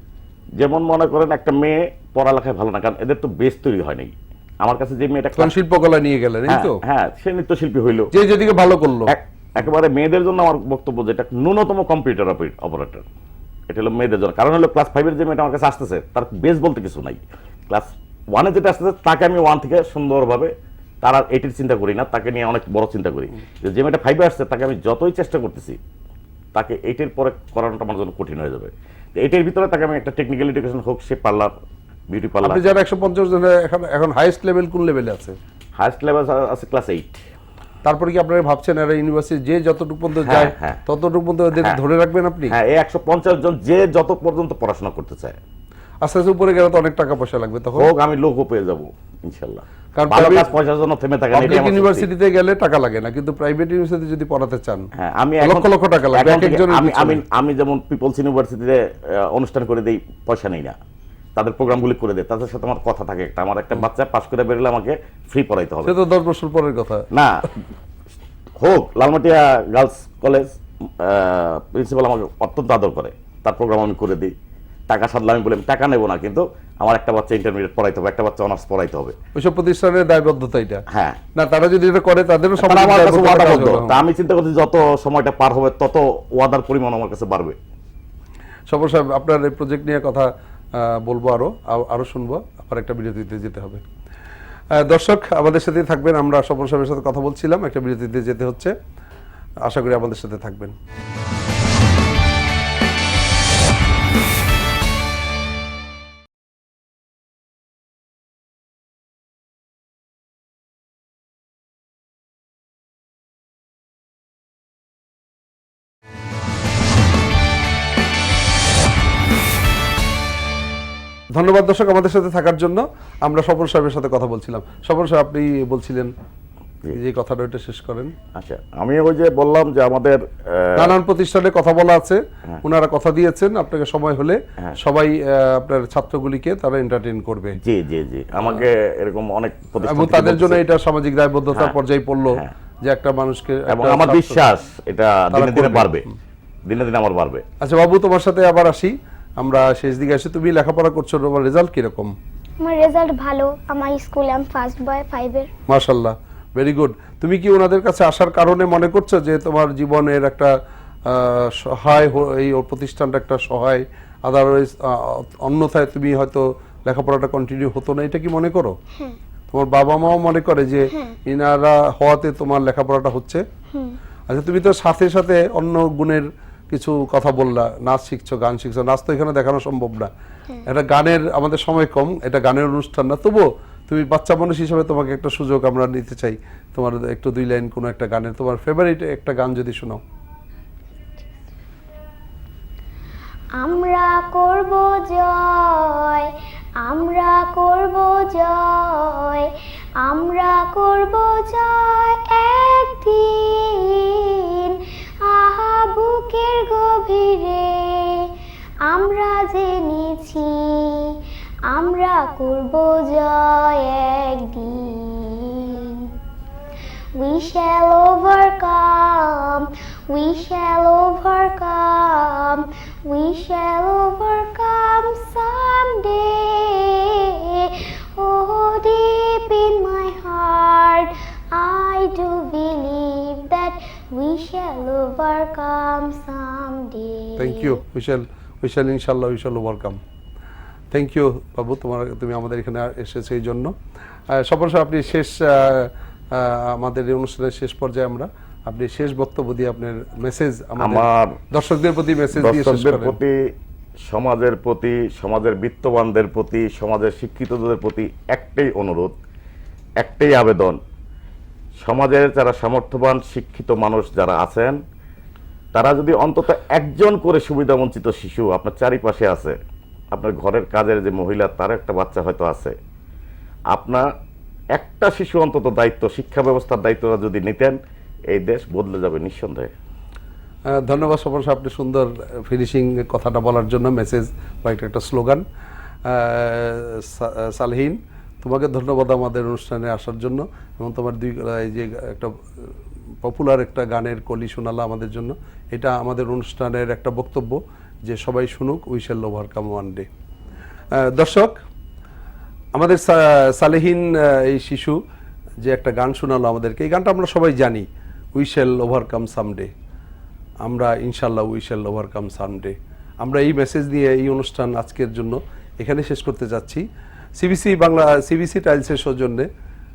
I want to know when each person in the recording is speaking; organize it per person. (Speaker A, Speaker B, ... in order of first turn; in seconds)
Speaker A: 0.6-5.5, 6.5-8.1, 9.1-13.1, 13.7-25.8, 26.5-31.5, 32.1-32.6, 35.8-37.2, 40.2-40.8, 42.5-45.4, 47.8-52.1, 54.9-60.8, 61.4-65.9, 67.1-67.5, 68.6-74.3, 74.9-79.2, 80.9-81.2, 82.6-87.6, 128.3-130.9, 137.6-140.6, 143.7-146.1, 146.7-147.4, 250.8-251.4, 252.3-259.2, 260.0-260.8, 261.8-264.8, 265.7-269.6, 270.1-272.7, 273.7-274.0, 274.7-277.8, 278.3-279.7
Speaker B: 5.3-6.8, 8.1-9.1, 32.4-35.4, 37.8-42.5, 46.0-47.9, 50.0-50.5, 51.3-54.9, 55.4-57.2, 65.8-67.0, 79.3-80.8, 81.3-84.0, 88.7-93.8, 94.7-98.7, 99.6-100.8, 121.3-126.1, 126.9-128.1, 130.8-137.6, 139.8-144.4, 145.3-145.9, 147.6-152.1, 155.7-160.5, 161.1-168.7, 169.5-173.4, 174.3-180.1, 180.7-190.0, 237.4-240.0, 240.9-243.7, 244.3-253.2, 280.7-285.4, 286.1-292.4, 293.2-300.1, 301.0-301.6, 302.7-305.0, 305.6-307.9, 308.4-309.7, 310.6-316.8, 317.4-319.5
Speaker C: 152.6-155.5, 193.6-208.3, 208.8-216.1, 217.1-237.8